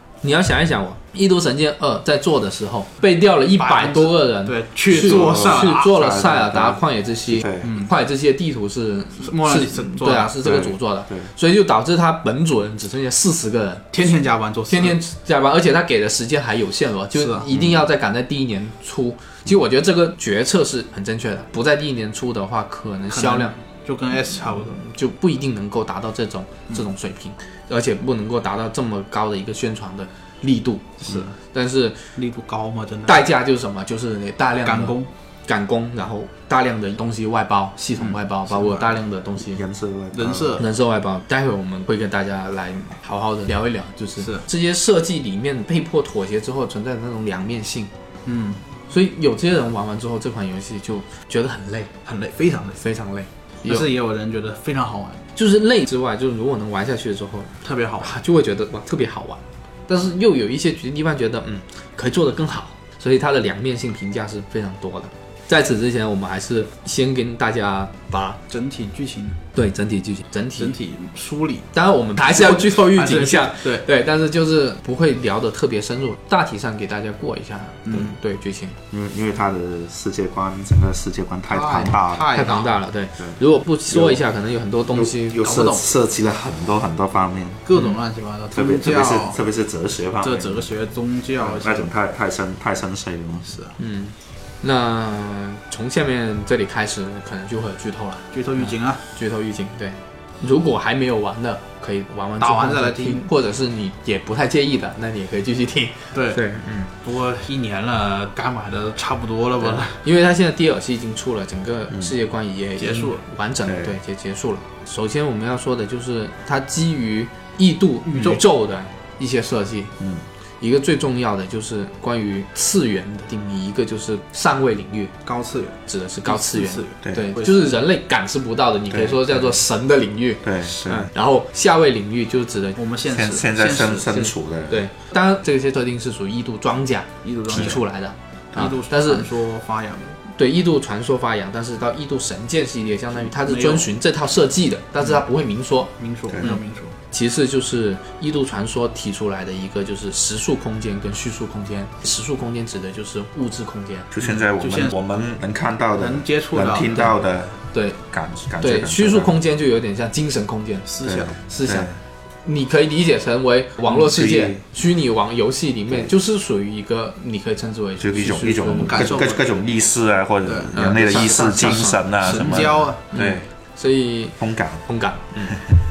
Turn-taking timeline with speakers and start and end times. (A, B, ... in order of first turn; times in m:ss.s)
0:00.2-0:13.9 A
0:03.6-0:05.9 B
0:05.0-0:07.7 C
0:07.6-0:07.9 B
0:09.2-0:10.3 B
0:10.4-0:11.3 C
0:13.9-0:15.0 B
0:14.7-0:23.6 A
0:17.1-0:17.5 B
0:17.5-0:17.8 C
0:23.1-0:24.8 B
0:24.6-0:32.0 A
0:31.0-0:31.3 B
0:32.2-0:33.2 B
0:33.0-0:39.6 A
0:34.6-0:35.1 B
0:38.0-0:38.9 B
0:39.4-0:40.6 C
0:40.1-0:40.7 B
0:40.6-0:47.9 A
0:44.2-0:44.4 B
0:48.2-0:48.6 B
0:48.9-0:51.9 A
0:52.0-0:52.8 B
0:52.8-0:53.9 A
0:53.6-0:55.2 B
0:55.3-1:08.4 A
0:57.6-0:58.1 B
1:08.5-1:09.4 B
1:09.5-1:10.7 A
1:10.6-1:11.7 B
1:11.7-1:18.8 A
1:12.2-1:13.9 B
1:17.8-1:18.1 B
1:18.9-1:22.3 C
1:21.5-1:22.8 B
1:22.3-1:25.4 A
1:23.9-1:24.2 C
1:24.9-1:27.6 C
1:25.4-1:25.9 B
1:27.6-1:29.4 B
1:28.5-1:30.7 C
1:30.2-1:31.9 B
1:31.4-1:33.5 C
1:33.4-1:33.7 B
1:33.8-1:46.9 A
1:38.3-1:39.0 B
1:42.4-1:43.2 B
1:46.1-1:50.0 B
1:49.6-1:59.9 A
1:52.8-1:53.2 B
1:53.6-1:54.0 C
1:58.0-1:58.4 B
2:00.6-2:05.1 A
2:05.2-2:07.8 B
2:05.9-2:12.8 A
2:08.9-2:09.6 C
2:10.4-2:11.1 C
2:12.8-2:14.2 B
2:13.1-2:14.8 C
2:14.1-2:19.3 A
2:17.2-2:17.8 B
2:18.5-2:20.2 B
2:20.3-2:26.6 A
2:23.3-2:23.9 B
2:26.0-2:26.9 B
2:27.1-2:34.1 A
2:34.1-2:39.3 C
2:34.6-2:34.9 B
2:36.0-2:37.0 B
2:37.7-2:38.0 A
2:38.6-2:41.9 A
2:40.8-2:41.3 B
2:41.0-2:42.0 C
2:42.4-2:49.2 A
2:43.9-2:44.6 C
2:48.0-2:53.5 C
2:48.8-2:49.5 B
2:50.4-2:53.0 B
2:50.7-2:55.6 A
2:54.4-2:54.8 C
2:55.5-2:55.8 C